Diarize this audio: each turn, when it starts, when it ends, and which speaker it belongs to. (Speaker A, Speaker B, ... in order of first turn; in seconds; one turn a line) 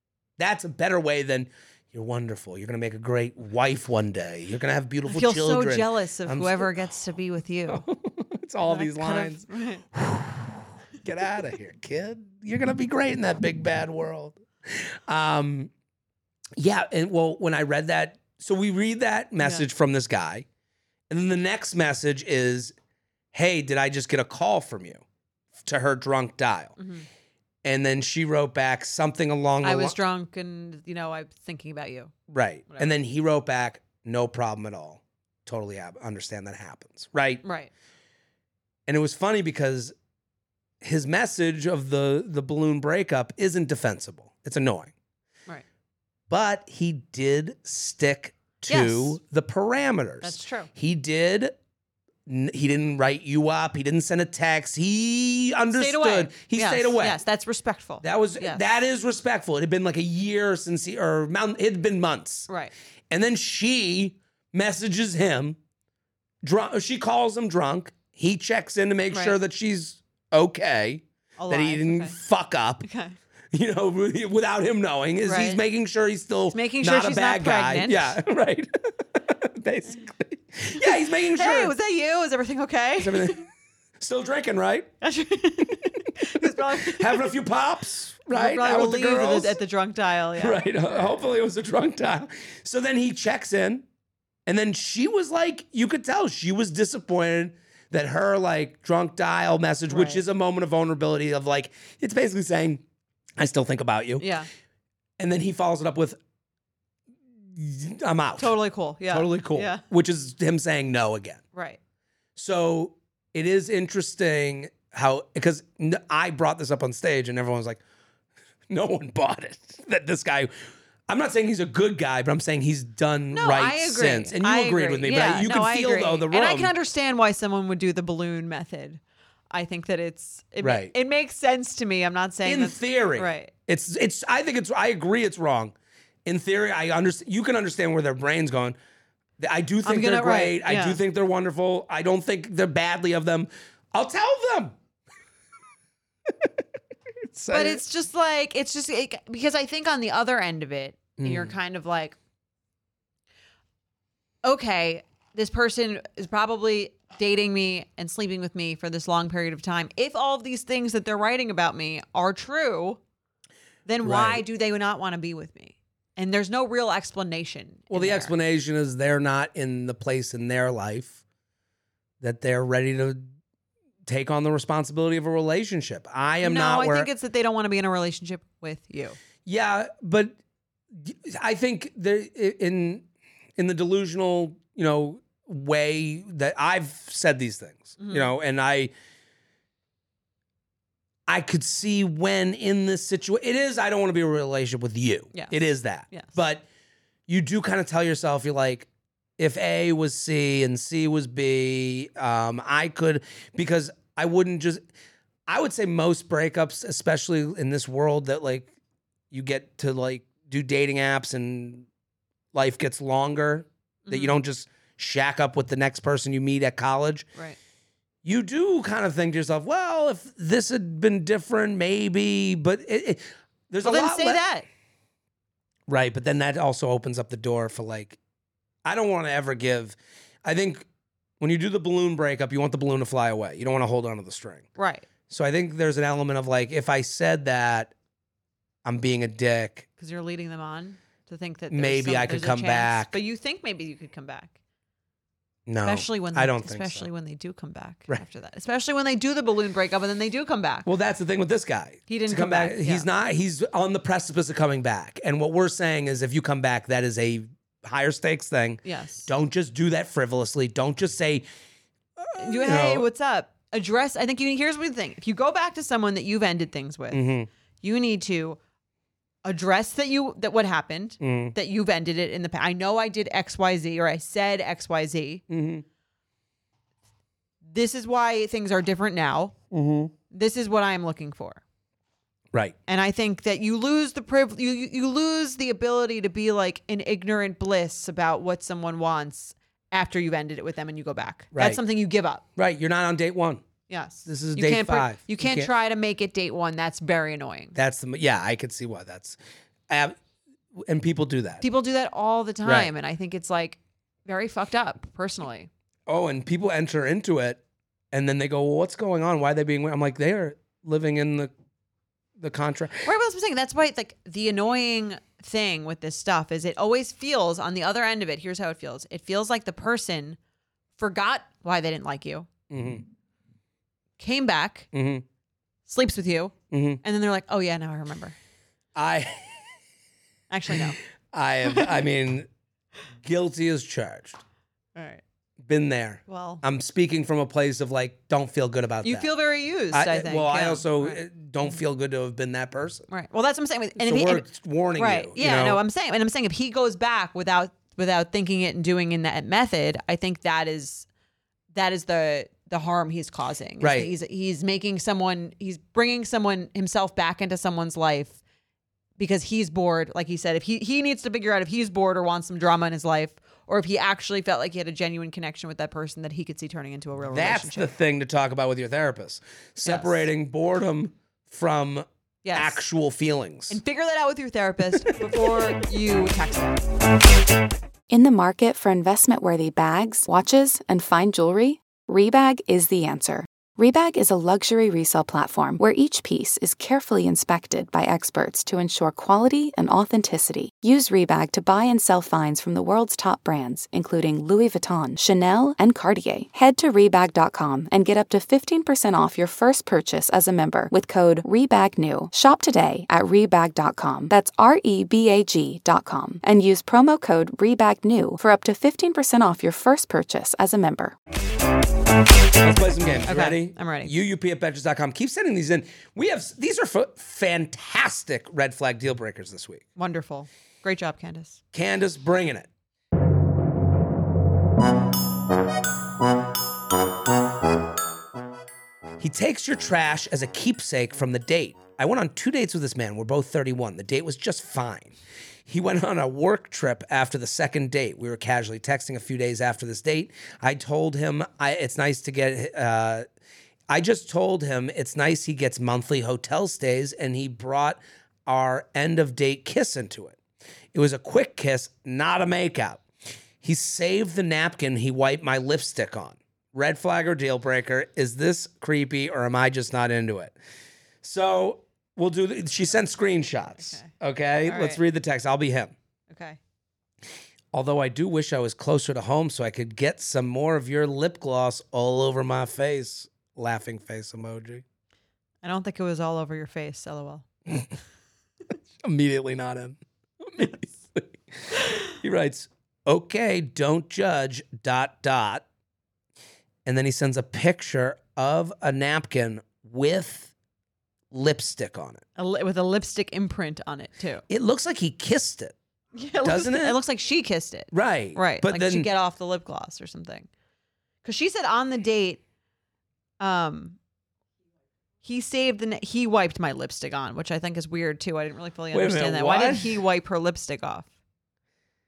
Speaker A: 0.4-6.7
Speaker B: 5.1-7.8
Speaker A: 7.7-15.7
Speaker B: 8.7-9.8
Speaker A: 16.6-20.5
Speaker B: 19.4-19.6
Speaker A: 21.1-22.7
Speaker A: 23.3-25.0
Speaker A: 25.6-26.8
Speaker B: 26.8-27.1
Speaker A: 27.6-29.9
Speaker B: 29.6-32.1
Speaker A: 32.3-37.4
Speaker B: 37.4-37.7
Speaker A: 38.9-39.9
Speaker A: 40.8-44.9
Speaker A: 46.3-51.6
Speaker B: 48.7-49.2
Speaker B: 50.2-50.7
Speaker A: 52.3-57.2
Speaker B: 55.7-58.6
Speaker A: 58.0-62.5
Speaker A: 63.1-65.6
Speaker A: 66.4-72.8
Speaker B: 71.4-72.2
Speaker B: 72.8-73.2
Speaker A: 73.5-81.7
Speaker B: 75.2-75.6
Speaker B: 76.5-78.2
Speaker B: 80.8-83.4
Speaker A: 83.0-83.4
Speaker A: 84.0-84.9
Speaker B: 85.0-87.3
Speaker A: 86.4-89.6
Speaker B: 88.3-91.2
Speaker A: 90.4-93.8
Speaker A: 94.5-102.8
Speaker B: 99.9-100.2
Speaker A: 103.4-104.3
Speaker B: 104.2-104.5
Speaker A: 105.2-106.2
Speaker A: 107.5-108.5
Speaker B: 108.4-109.8
Speaker A: 109.1-111.4
Speaker B: 111.5-111.8
Speaker A: 112.4-117.8
Speaker A: 118.7-120.5
Speaker A: 121.1-126.7
Speaker B: 123.3-129.0
Speaker B: 129.5-133.5
Speaker A: 130.6-130.9
Speaker A: 132.4-138.8
Speaker A: 139.4-144.8
Speaker B: 139.8-141.0
Speaker A: 146.3-146.6
Speaker A: 147.3-147.8
Speaker B: 147.5-152.2
Speaker A: 151.2-151.6
Speaker B: 154.4-163.0
Speaker B: 163.9-168.3
Speaker A: 164.0-164.4
Speaker A: 167.9-171.2
Speaker A: 172.2-173.2
Speaker A: 174.1-177.1
Speaker B: 176.4-179.2
Speaker A: 179.5-180.4
Speaker A: 180.9-183.1
Speaker A: 183.6-188.9
Speaker B: 188.0-188.3
Speaker A: 191.3-196.7
Speaker A: 197.3-204.8
Speaker A: 205.5-208.7
Speaker A: 209.3-211.9
Speaker A: 212.5-217.3
Speaker B: 214.1-214.4
Speaker A: 218.2-224.4
Speaker B: 223.8-224.7
Speaker A: 225.9-228.2
Speaker A: 228.8-230.9
Speaker A: 231.4-234.7
Speaker B: 234.8-235.1
Speaker A: 235.3-237.9
Speaker A: 238.8-239.9
Speaker B: 240.0-244.6
Speaker A: 241.7-243.2
Speaker A: 245.7-247.1
Speaker B: 245.8-250.9
Speaker A: 250.9-261.4
Speaker B: 252.1-253.1
Speaker B: 258.9-259.3
Speaker A: 262.2-263.1
Speaker B: 262.4-267.2
Speaker A: 267.1-267.5
Speaker B: 267.8-268.6
Speaker B: 269.4-275.4
Speaker A: 271.2-271.6
Speaker A: 275.5-275.9
Speaker B: 277.7-279.6
Speaker A: 279.7-280.1
Speaker B: 280.3-281.6
Speaker B: 282.9-292.4
Speaker A: 291.5-291.8
Speaker A: 292.6-293.6
Speaker B: 293.9-297.8
Speaker A: 294.3-295.7
Speaker A: 297.8-300.2
Speaker A: 300.7-301.6
Speaker B: 301.6-305.7
Speaker A: 302.6-302.9
Speaker A: 306.1-307.6
Speaker A: 308.1-311.5
Speaker A: 312.4-313.1
Speaker B: 313.0-320.4
Speaker B: 321.0-322.5
Speaker A: 322.7-323.1
Speaker B: 324.2-324.9
Speaker A: 324.9-325.2
Speaker B: 325.9-328.4
Speaker A: 326.7-327.0
Speaker A: 328.9-329.6
Speaker B: 330.5-331.0
Speaker A: 331.3-332.5
Speaker A: 333.2-334.4
Speaker B: 334.9-335.2
Speaker A: 335.6-339.3
Speaker B: 336.3-336.6
Speaker B: 339.0-341.2
Speaker A: 339.9-343.1
Speaker B: 343.1-351.1
Speaker A: 344.0-345.8
Speaker B: 351.7-358.4
Speaker A: 353.8-354.1
Speaker B: 359.2-367.9
Speaker A: 367.3-373.8
Speaker B: 369.8-370.3
Speaker B: 372.4-372.8
Speaker B: 373.7-376.8
Speaker C: 378.1-411.2
Speaker A: 412.6-419.9
Speaker B: 413.3-414.1
Speaker B: 420.0-421.6
Speaker A: 421.7-422.7
Speaker A: 429.2-435.1
Speaker A: 435.7-443.2
Speaker A: 443.9-450.4
Speaker A: 450.9-453.0
Speaker A: 453.6-460.6
Speaker A: 461.2-465.9
Speaker B: 463.8-464.1
Speaker B: 464.7-465.0
Speaker B: 466.3-466.6
Speaker A: 467.7-474.8
Speaker B: 475.6-477.4
Speaker A: 479.0-485.6
Speaker A: 486.9-490.5
Speaker A: 491.3-492.2
Speaker B: 492.4-494.4
Speaker A: 494.5-495.8
Speaker B: 496.2-500.5
Speaker A: 496.4-497.0
Speaker A: 497.9-499.1
Speaker B: 501.2-502.4
Speaker B: 503.4-504.0
Speaker B: 505.2-511.1
Speaker A: 508.9-510.0